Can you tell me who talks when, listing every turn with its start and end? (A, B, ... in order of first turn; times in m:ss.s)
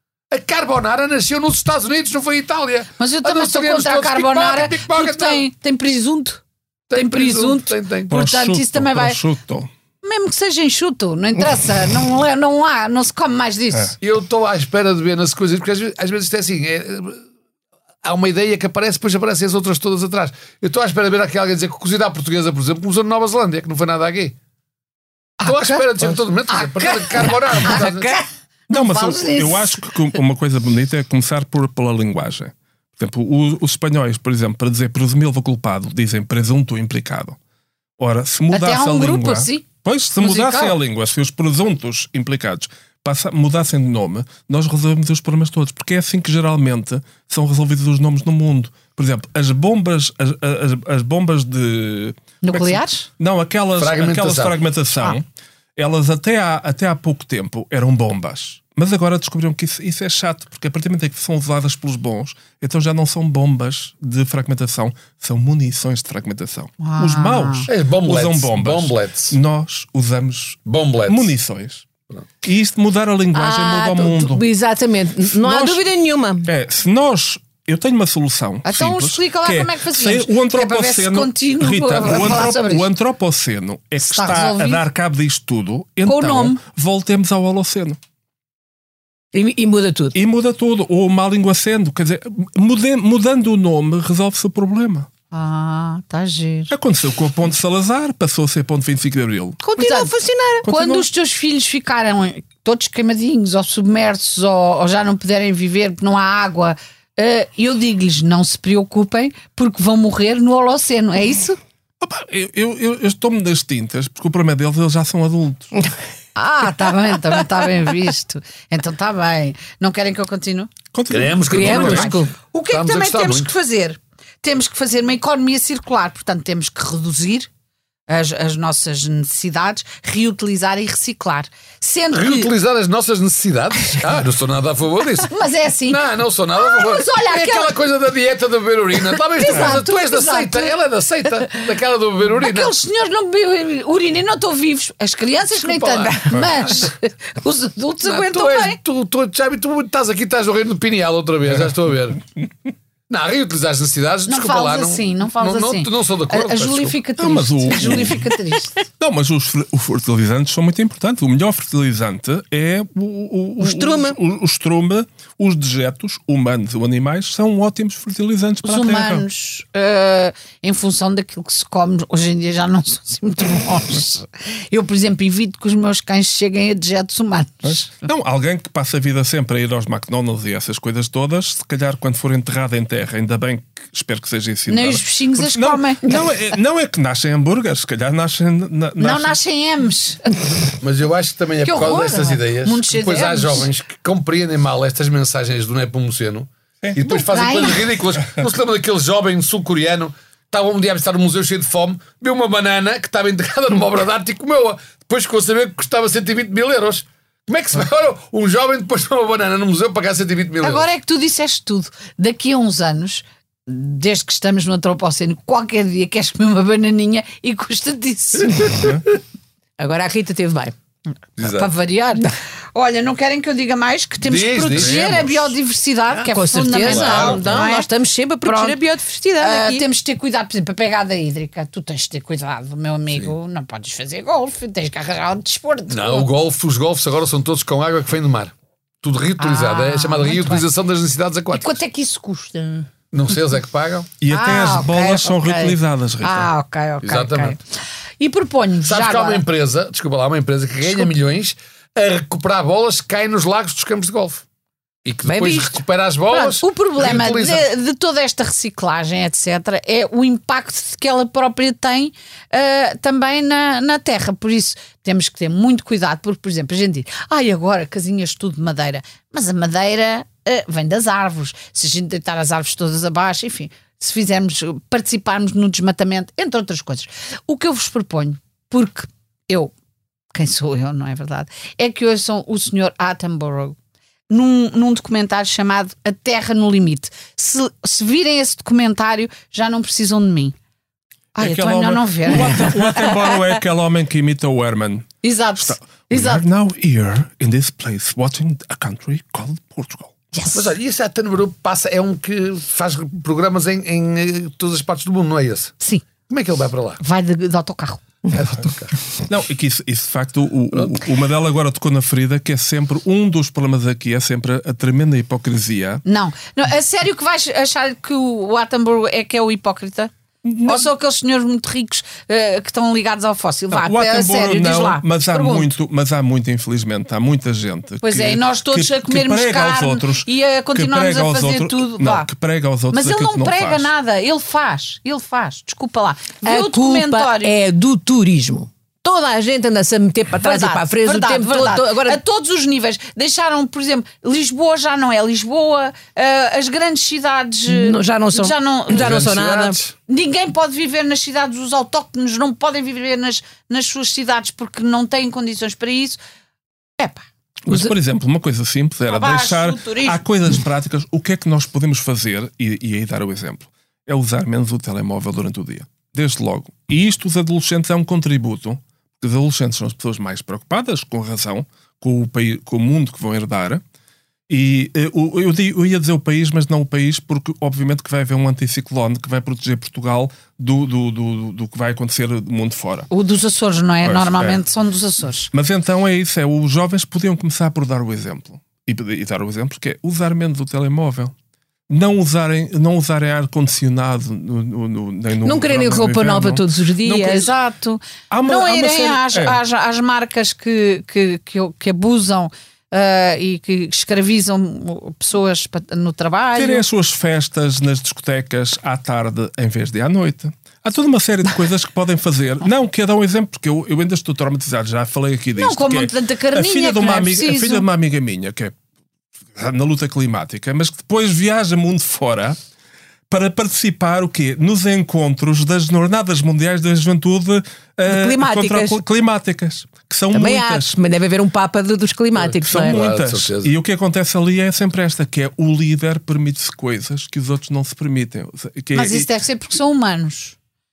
0:00.3-0:05.4 A
0:03.0-0:06.4 B
0:06.9-0:08.2 A
0:06.9-0:09.2 B
0:08.1-0:09.7 C
0:10.0-0:14.0 B
0:14.0-0:17.2 A
0:18.0-0:24.4 A
0:25.4-0:29.8 B
0:25.4-0:28.2 A
0:28.7-0:37.4 C
0:38.0-0:55.2 C
0:38.5-0:39.7 B
0:40.2-0:40.8 B
0:52.4-0:53.1 B
0:53.8-0:54.6 A
0:55.8-1:11.8 C
1:06.8-1:07.7 B
1:07.7-1:09.4 A
1:10.7-1:11.3 A
1:12.4-1:14.4 C
1:13.3-1:16.5 D
1:15.4-1:15.8 C
1:16.4-1:28.0 C
1:18.6-1:22.9 B
1:24.0-1:24.8 B
1:26.0-1:26.6 B
1:29.3-1:30.2 D
1:30.1-1:35.1 C
1:35.3-1:36.7 B
1:36.7-1:39.6 C
1:39.6-1:40.6 D
1:39.8-1:40.1 B
1:40.6-1:41.1 C
1:40.6-1:51.6 B
1:52.0-1:55.7 C
1:56.4-2:00.7 B
2:00.9-2:02.2 C
2:01.1-2:03.5 A
2:01.5-2:07.5 B
2:01.6-2:02.1 D
2:08.1-2:12.5 B
2:12.1-2:15.3 A
2:15.3-2:16.0 B
2:15.9-2:22.7 A
2:16.6-2:17.8 B
2:19.3-2:20.8 B
2:22.4-2:28.8 B
2:25.6-2:26.7 A
2:28.0-2:32.2 A
2:33.1-2:37.0 A
2:34.3-2:38.8 B
2:37.2-2:38.3 C
2:39.0-2:49.2 C
2:43.6-2:44.2 D
2:48.6-2:58.0 B
2:57.6-3:09.4 C
3:04.7-3:06.2 B
3:09.0-3:10.5 B
3:10.8-3:30.9 A
3:11.6-3:13.7 B
3:17.0-3:18.0 B
3:30.6-3:38.8 B
3:38.8-3:39.0 C
3:39.8-3:40.8 D
3:41.4-3:41.7 A
3:41.4-3:47.9 B
3:44.2-3:45.5 A
3:46.2-3:49.8 D
3:46.8-3:47.6 A
3:48.4-3:48.8 B
3:49.4-3:56.3 B
3:55.9-4:01.8 A
3:59.4-4:00.7 B
4:01.5-4:02.9 B
4:03.1-4:04.1 A
4:04.2-4:06.5 C
4:04.3-4:07.6 B
4:07.0-4:07.6 A
4:08.2-4:09.4 B
4:08.8-4:14.4 A
4:15.0-4:17.7 A
4:15.3-4:15.8 D
4:16.3-4:39.7 B
4:40.3-4:43.8 B
4:44.3-4:50.6 B
4:51.4-4:53.3 B
4:51.4-5:00.2 C
4:55.2-4:56.4 B
5:00.3-5:00.7 B
5:00.5-5:05.8 A
5:06.3-5:07.0 A
5:07.0-5:08.0 B
5:08.3-5:09.0 A
5:09.2-5:16.0 C
5:10.7-5:11.0 A
5:16.1-5:20.1 B
5:20.4-5:20.9 C
5:20.6-5:25.7 B
5:23.7-5:33.9 C
5:28.0-5:32.3 B
5:32.9-5:37.5 B
5:36.4-5:42.2 D
5:40.4-5:49.2 B
5:47.7-5:49.8 D
5:48.9-5:49.9 A
5:50.1-5:56.2 B
5:57.0-5:57.9 B
5:57.7-6:13.8 C
5:59.1-6:00.2 B
6:14.5-6:23.1 C
6:23.1-6:25.5 B
6:24.0-6:24.6 C
6:25.5-6:31.3 C
6:31.9-6:37.4 C
6:35.4-6:37.5 D
6:37.2-6:46.8 B
6:38.3-6:39.6 C
6:46.6-6:58.8 C
6:55.6-6:57.9 B
6:59.6-7:02.6 C
7:03.3-7:11.0 C
7:08.1-7:09.0 D
7:10.3-7:13.0 D
7:12.6-7:19.3 C
7:12.7-7:13.7 A
7:18.9-7:20.6 B